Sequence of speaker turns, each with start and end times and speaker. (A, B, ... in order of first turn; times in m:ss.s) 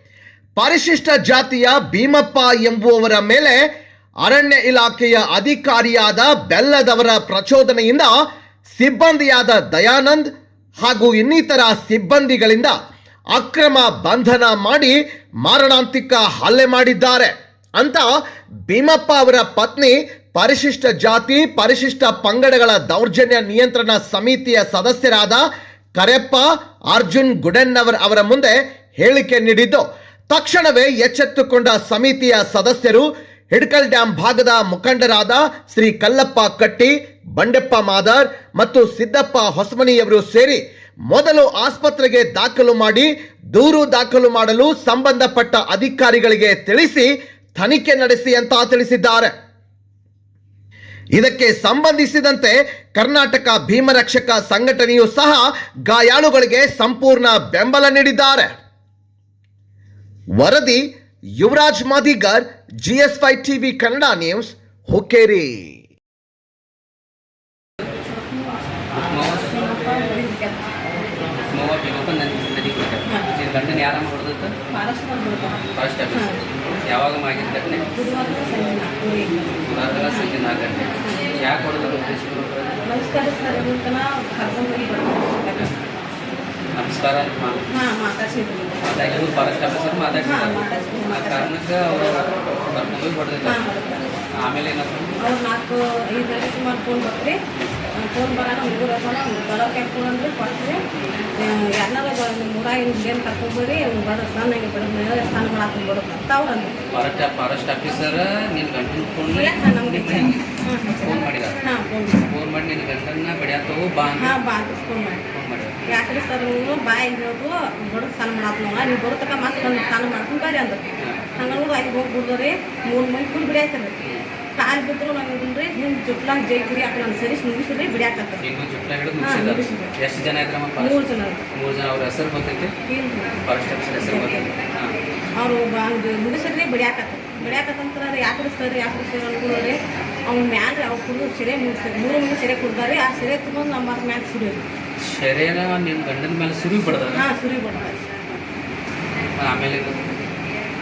0:00.6-0:03.6 A
0:04.2-0:08.1 A
0:08.7-0:10.3 A
0:10.8-0:12.7 A
0:13.3-0:18.0 A
0:18.7-0:49.3 A
0:51.1-0:58.6 A
1:00.4-1:05.8 A
1:08.9-1:09.5 B
1:09.1-1:10.7 C
1:11.5-1:14.6 B
1:13.0-1:13.3 C
1:14.7-1:16.4 C
1:15.7-1:17.8 B
1:17.9-1:20.3 C
1:19.6-1:22.8 B
1:22.8-1:25.8 C
1:26.7-1:27.7 B
1:27.7-1:28.9 C
1:28.8-1:33.6 B
1:30.2-1:31.5 C
1:33.4-1:34.1 C
1:34.4-1:35.2 B
1:35.2-1:37.4 C
1:37.9-1:40.8 C
1:41.4-1:46.8 C
1:46.9-1:50.4 B
1:49.3-1:52.3 C
1:51.0-1:51.6 B
1:52.2-1:54.4 B
1:54.2-1:55.2 C
1:55.3-1:56.0 B
1:55.9-2:04.0 C
2:01.0-2:01.3 B
2:04.5-2:08.4 C
2:08.4-2:12.7 B
2:09.2-2:09.9 C
2:10.8-2:11.5 C
2:12.8-2:14.5 C
2:13.4-2:15.0 B
2:15.4-2:24.6 C
2:25.0-2:27.2 B
2:27.1-2:28.0 C
2:29.4-2:30.1 B